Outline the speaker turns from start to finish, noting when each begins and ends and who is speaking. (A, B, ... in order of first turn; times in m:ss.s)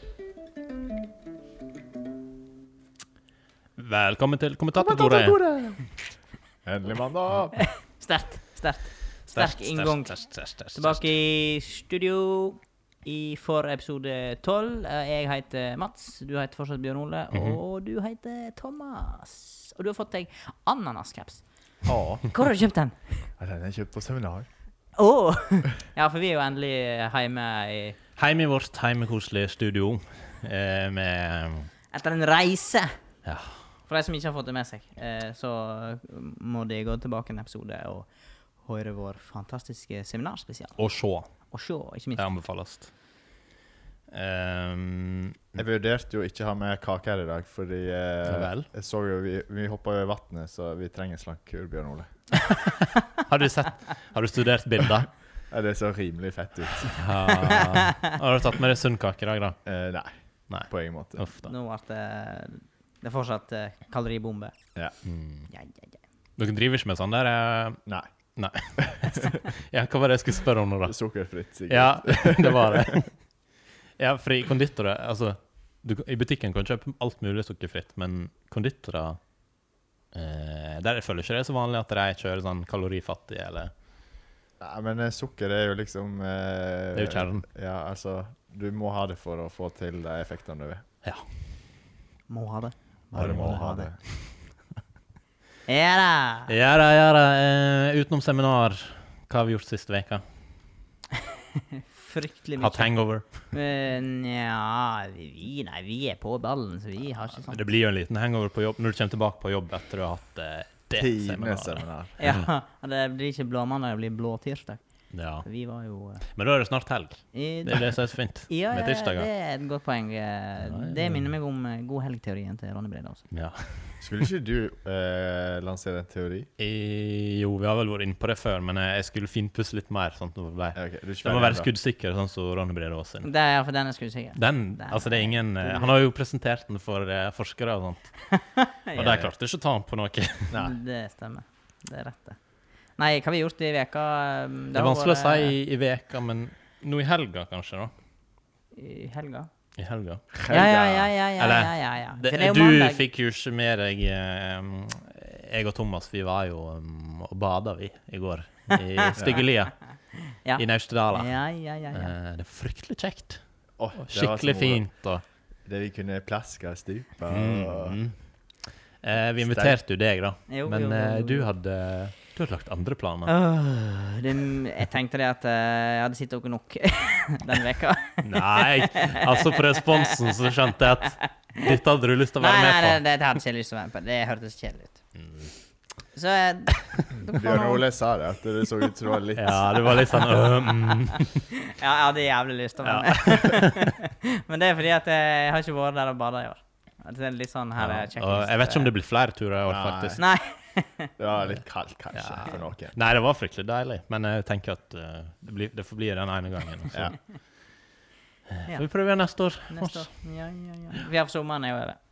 0:03.8-0:05.8 A
0:04.8-0:05.8 B
0:06.6-0:07.6 B
0:07.6-0:10.2 C
0:09.3-0:11.1 A
0:10.7-0:21.4 C
0:17.3-0:17.6 A
0:21.8-0:22.2 B
0:22.3-0:23.3 C
0:23.4-0:24.5 B
0:25.0-0:28.0 C
0:28.2-0:31.7 A
0:31.9-0:32.9 C
0:33.2-0:33.7 A
0:33.9-0:38.1 C
0:38.6-0:40.8 C
0:40.8-0:41.3 A
0:41.5-0:42.2 C
0:42.2-0:42.9 A
0:44.1-0:45.5 A
0:45.6-0:52.1 B
0:48.2-0:48.7 A
0:52.4-0:55.1 A
0:55.5-0:57.0 B
0:56.9-0:59.6 A
0:57.4-0:58.1 C
0:59.6-1:00.1 B
1:00.5-1:01.5 A
1:00.7-1:01.3 B
1:01.4-1:04.5 C
1:05.0-1:05.5 A
1:05.5-1:06.0 C
1:06.4-1:07.8 A
1:08.4-1:11.0 A
1:08.8-1:09.4 B
1:10.9-1:12.9 B
1:11.7-1:13.1 A
1:14.0-1:19.2 A
1:20.1-1:23.7 A
1:24.6-1:30.8 B
1:26.9-1:27.4 A
1:32.3-1:33.9 C
1:33.1-1:34.0 B
1:33.2-1:33.7 A
1:35.7-1:36.5 C
1:36.5-1:40.2 A
1:41.2-1:47.6 C
1:42.6-1:43.5 A
1:47.4-1:52.4 A
1:50.9-1:52.2 B
1:52.2-1:54.8 C
1:55.1-1:55.5 A
1:55.4-1:56.2 C
1:56.2-1:59.3 A
1:57.3-1:57.9 C
1:58.5-2:03.2 C
2:00.6-2:01.2 A
2:03.3-2:04.1 A
2:04.0-2:06.5 B
2:06.6-2:13.3 A
2:10.7-2:11.7 B
2:13.2-2:15.9 C
2:14.4-2:18.4 A
2:18.3-2:19.3 C
2:19.0-2:20.6 A
2:20.5-2:20.7 B
2:20.6-2:22.4 C
2:23.0-2:25.6 C
2:24.7-2:27.9 A
2:28.7-2:29.5 C
2:29.8-2:30.6 A
2:30.3-2:31.1 B
2:30.5-2:33.0 C
2:31.2-2:39.7 A
2:38.7-2:39.4 C
2:39.2-2:39.4 B
2:40.2-2:42.1 C
2:40.6-2:41.4 A
2:41.9-2:43.4 A
2:43.8-2:44.8 B
2:44.0-2:45.2 A
2:45.6-2:48.0 B
2:47.3-2:48.2 A
2:49.0-2:53.3 A
2:49.4-2:49.8 B
2:50.5-2:51.5 C
2:53.3-3:00.3 C
2:58.2-3:03.0 A
3:01.2-3:01.7 C
3:02.4-3:05.0 C
3:05.1-3:05.5 A
3:06.1-3:07.8 C
3:07.2-3:10.0 B
3:09.4-3:11.4 A
3:09.7-3:18.9 C
3:12.8-3:13.9 A
3:17.8-3:20.2 A
3:19.7-3:20.2 B
3:20.2-3:21.1 C
3:21.2-3:22.9 B
3:22.1-3:27.1 A
3:26.9-3:27.2 B
3:28.5-3:30.1 A
3:29.7-3:32.0 C